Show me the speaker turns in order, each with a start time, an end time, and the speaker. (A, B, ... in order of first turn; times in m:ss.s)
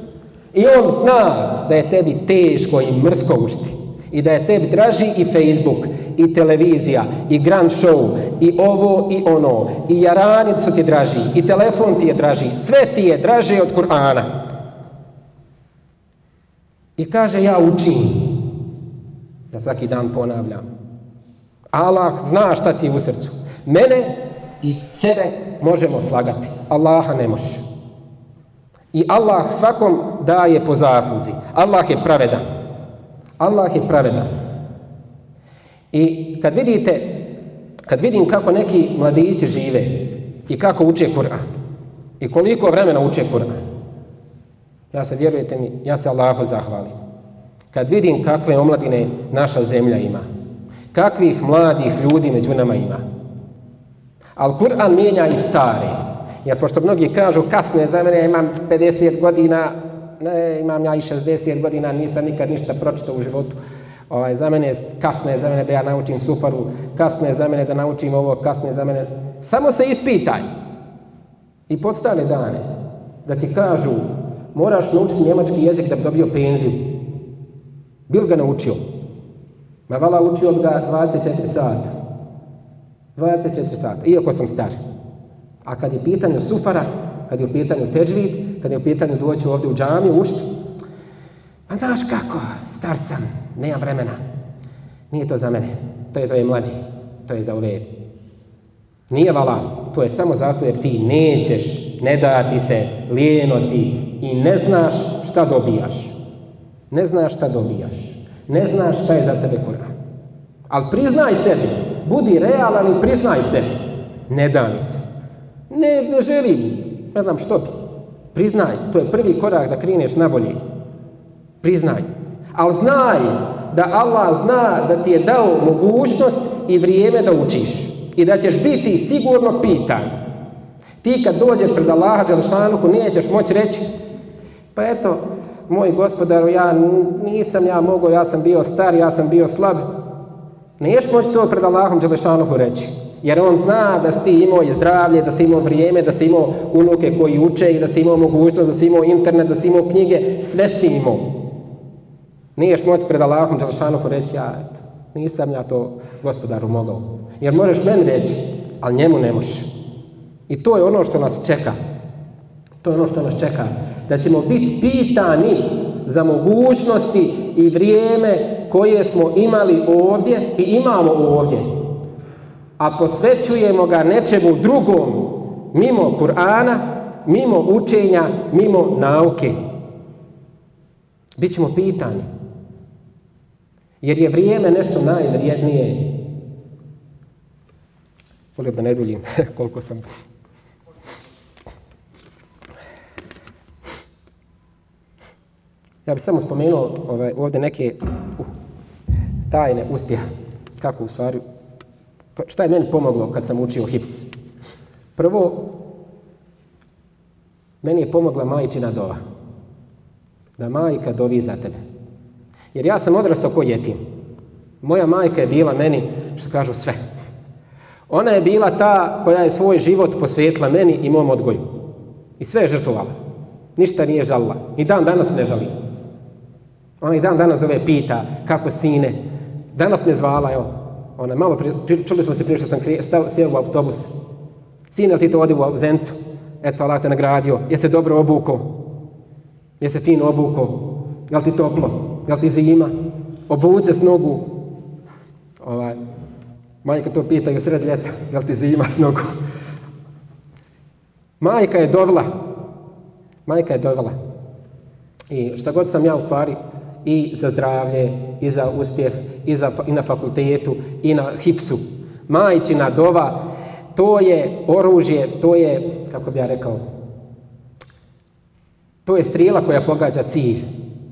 0:00.5-0:14.3 A
0:17.0-0:18.5 A
0:19.5-0:20.7 A
0:21.7-0:27.6 A
0:28.9-0:32.4 A
0:33.4-0:34.3 A
0:35.9-0:37.3 A
0:37.9-0:41.4 A
0:42.2-0:43.6 A
0:44.9-0:47.0 A
0:47.7-0:50.2 A
0:50.9-0:53.0 A
0:54.4-1:03.6 A
1:04.1-1:10.5 A
1:11.7-1:12.6 A
1:13.2-1:17.0 A
1:18.1-1:18.8 A
1:19.9-1:21.9 A
1:23.2-1:24.8 A
1:25.6-1:30.5 A
1:31.7-1:34.2 A
1:35.1-1:37.9 A
1:39.1-1:46.1 A
1:46.9-1:49.9 A
1:50.7-1:55.0 A
1:55.7-1:57.7 A
1:58.3-2:00.6 A
2:01.6-2:10.1 A
2:11.0-2:13.8 A
2:14.7-2:19.9 A
2:20.8-2:31.4 A
2:32.6-2:39.7 A
2:40.5-2:41.8 A
2:42.8-2:51.7 A
2:52.8-2:59.6 A
3:01.4-3:02.3 A
3:04.0-3:06.2 A
3:08.6-3:10.0 A
3:16.0-3:18.5 A
3:19.5-3:20.2 A
3:20.8-3:21.4 A
3:22.4-3:24.3 A
3:25.2-3:25.8 A
3:27.8-3:29.2 A
3:30.6-3:31.8 A
3:32.7-3:34.0 A
3:34.8-3:37.0 A
3:38.1-3:41.6 A
3:42.4-3:43.1 A
3:43.8-3:45.7 A
3:47.0-3:49.2 A
3:49.7-3:54.1 A
3:54.9-3:58.8 A
3:59.8-4:03.0 A
4:03.5-4:04.6 A
4:05.6-4:06.0 A
4:06.8-4:09.3 A
4:11.4-4:12.4 A
4:13.4-4:14.2 A
4:15.3-4:23.4 A
4:23.9-4:26.8 A
4:29.0-4:30.6 A